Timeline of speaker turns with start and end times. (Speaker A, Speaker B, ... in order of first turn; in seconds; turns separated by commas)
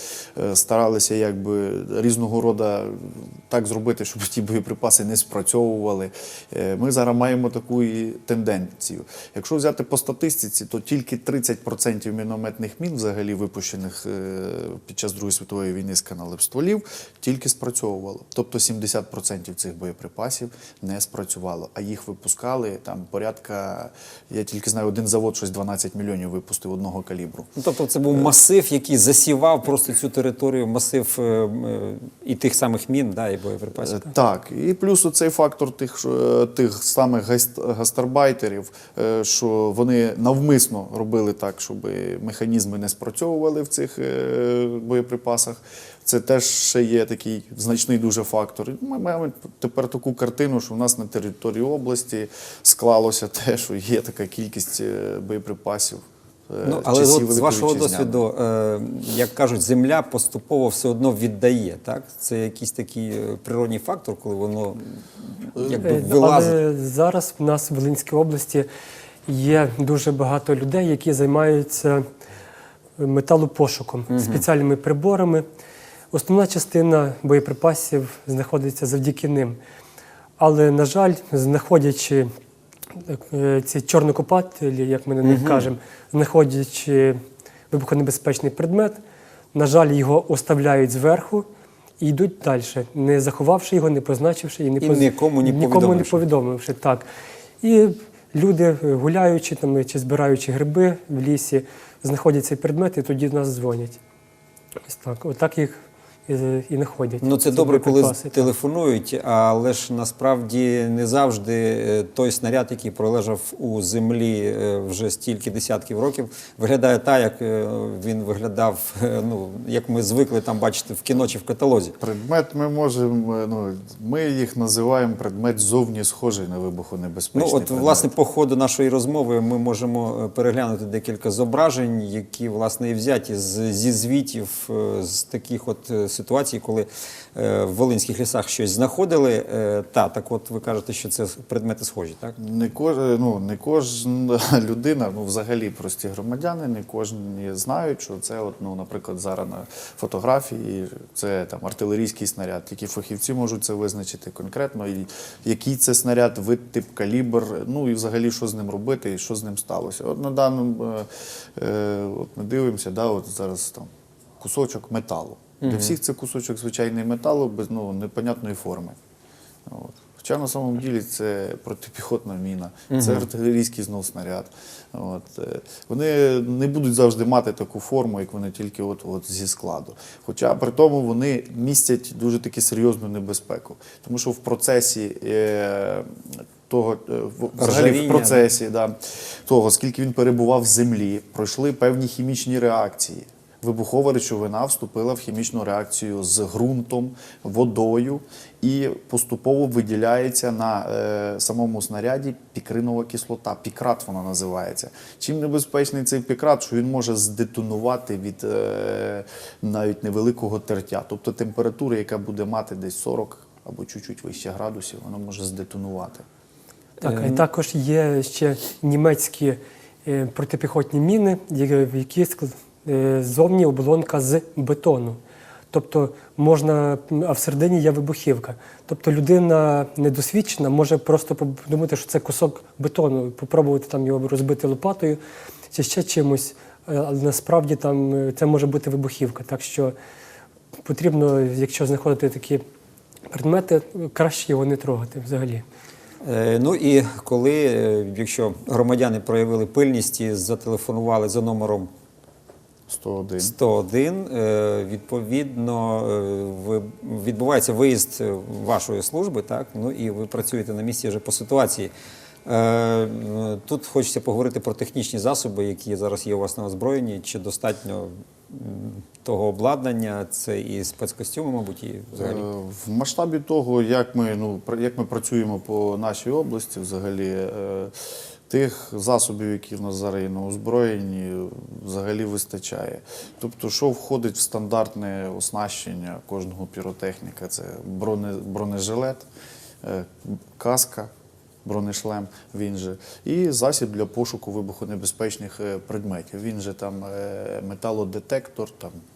Speaker A: 0.4-27.5, Speaker B: 27.6-34.1, Speaker A: 33.8-58.2, Speaker B: 56.6-66.6, Speaker A: 65.6-65.8, Speaker C: 65.8-68.7, Speaker C: 69.3-72.1, Speaker C: 73.0-75.5, Speaker B: 74.1-74.5, Speaker C: 76.1-79.6, Speaker C: 80.4-82.3, Speaker C: 83.0-89.0, Speaker B: 85.2-85.7, Speaker C: 89.5-91.5, Speaker C: 92.0-97.1, Speaker B: 94.8-96.2, Speaker C: 97.6-104.0, Speaker C: 104.9-108.5, Speaker B: 107.2-121.9, Speaker A: 122.0-128.1, Speaker B: 127.3-142.4, Speaker A: 142.4-169.0, Speaker B: 165.6-165.9, Speaker A: 169.7-216.3, Speaker B: 172.9-173.3, Speaker B: 187.6-188.4, Speaker C: 217.0-225.2, Speaker B: 217.0-217.4, Speaker C: 225.7-235.2, Speaker C: 235.7-239.9, Speaker C: 240.8-242.6, Speaker C: 243.3-245.7, Speaker B: 246.2-251.9, Speaker A: 252.9-253.5, Speaker B: 253.4-261.9, Speaker B: 262.5-272.4, Speaker A: 272.2-277.9, Speaker A: 278.5-289.3, Speaker A: 289.8-291.1, Speaker A: 291.6-299.0